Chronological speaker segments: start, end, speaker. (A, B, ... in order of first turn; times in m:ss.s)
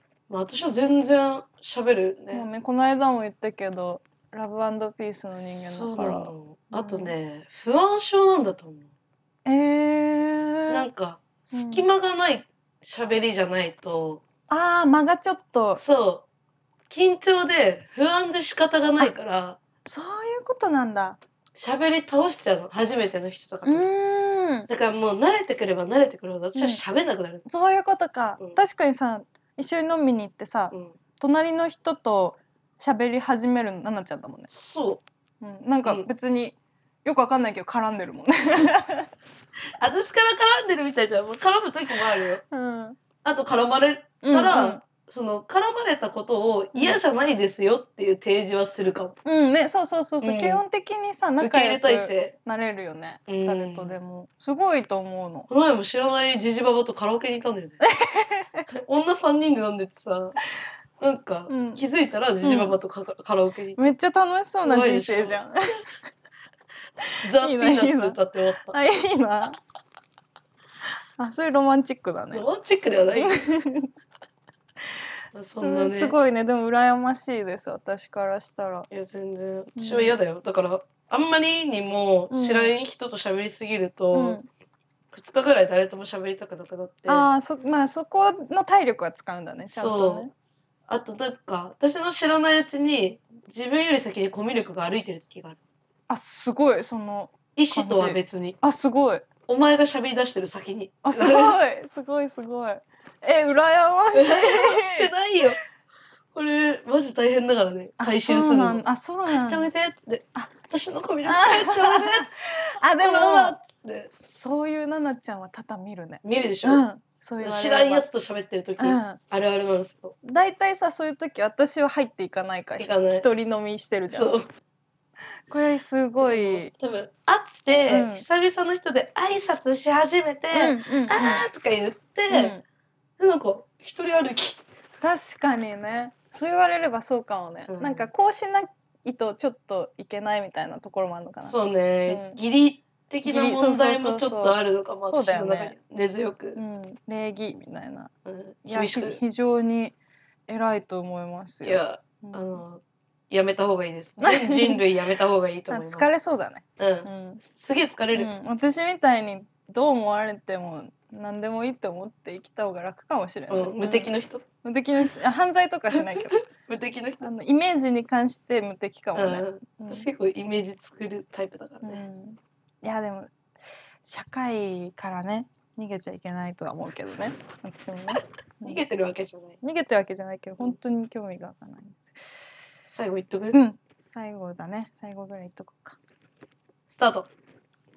0:00.3-0:02.5 A
0:02.3-0:07.1 B
0:05.4-0:08.9 A
0:09.5-0:10.9 B
0:10.7-0:14.2 A
0:11.5-0:11.9 B
0:14.5-0:15.8 B
0:15.8-0:16.2 A
0:16.9-0:19.6 A
0:19.9-0:21.2 B
0:21.6-0:23.9 A
0:23.6-0:24.7 B
0:24.7-0:27.4 A
0:26.6-0:26.8 B
0:27.5-0:34.5 B
0:30.7-0:31.0 A
0:34.5-0:35.0 A
0:35.4-0:39.1 B
0:39.8-0:42.4 A
0:42.5-0:43.0 B
0:43.2-0:49.2 A
0:44.2-0:44.8 B
0:46.8-0:47.0 B
0:49.2-0:55.5 B
0:50.2-0:50.6 A
0:51.4-0:52.3 A
0:53.3-0:54.0 A
0:55.5-0:57.8 A
0:57.8-0:58.7 B
0:58.7-1:00.4 A
1:01.0-1:03.9 A
1:01.5-1:01.9 B
1:02.4-1:02.8 B
1:03.8-1:05.8 B
1:04.6-1:05.8 A
1:07.2-1:08.8 A
1:07.4-1:09.6 B
1:11.2-1:12.4 B
1:12.3-1:13.5 A
1:13.1-1:13.9 B
1:15.3-1:16.2 A
1:15.6-1:18.9 B
1:18.9-1:24.4 A
1:19.8-1:20.2 B
1:22.3-1:22.7 B
1:24.1-1:24.5 B
1:25.1-1:27.3 A
1:27.1-1:30.3 B
1:29.7-1:30.3 A
1:30.9-1:35.6 A
1:36.1-1:39.2 B
1:37.6-1:38.6 A
1:39.5-1:41.6 A
1:41.0-1:45.1 B
1:44.1-1:45.6 A
1:46.3-1:52.3 A
1:48.0-1:49.7 B
1:51.2-1:53.6 B
1:53.0-1:54.1 A
1:54.1-1:58.1 B
1:56.2-1:56.8 A
1:57.4-2:00.2 A
1:58.8-1:59.2 B
2:00.2-2:04.4 B
2:02.8-2:03.2 A
2:04.1-2:04.5 A
2:05.5-2:06.7 B
2:06.2-2:12.5 A
2:07.9-2:08.2 B
2:10.5-2:11.4 B
2:12.3-2:12.6 B
2:13.2-2:14.6 A
2:15.0-2:22.4 B
2:17.7-2:18.1 A
2:21.4-2:26.6 A
2:23.2-2:25.8 B
2:26.6-2:28.1 B
2:28.2-2:29.2 A
2:28.7-2:30.0 B
2:30.5-2:32.6 B
2:31.6-2:36.2 A
2:34.2-2:34.8 B
2:35.7-2:37.4 B
2:36.8-2:38.3 A
2:38.1-2:44.1 B
2:43.5-2:44.4 A
2:44.6-2:46.4 B
2:45.9-2:47.3 A
2:47.2-2:50.1 B
2:49.2-2:52.0 A
2:51.8-2:53.3 B
2:54.0-2:58.8 B
2:58.6-2:59.6 A
2:59.6-3:02.3 B
3:02.9-3:03.6 A
3:03.5-3:06.0 B
3:06.9-3:07.3 A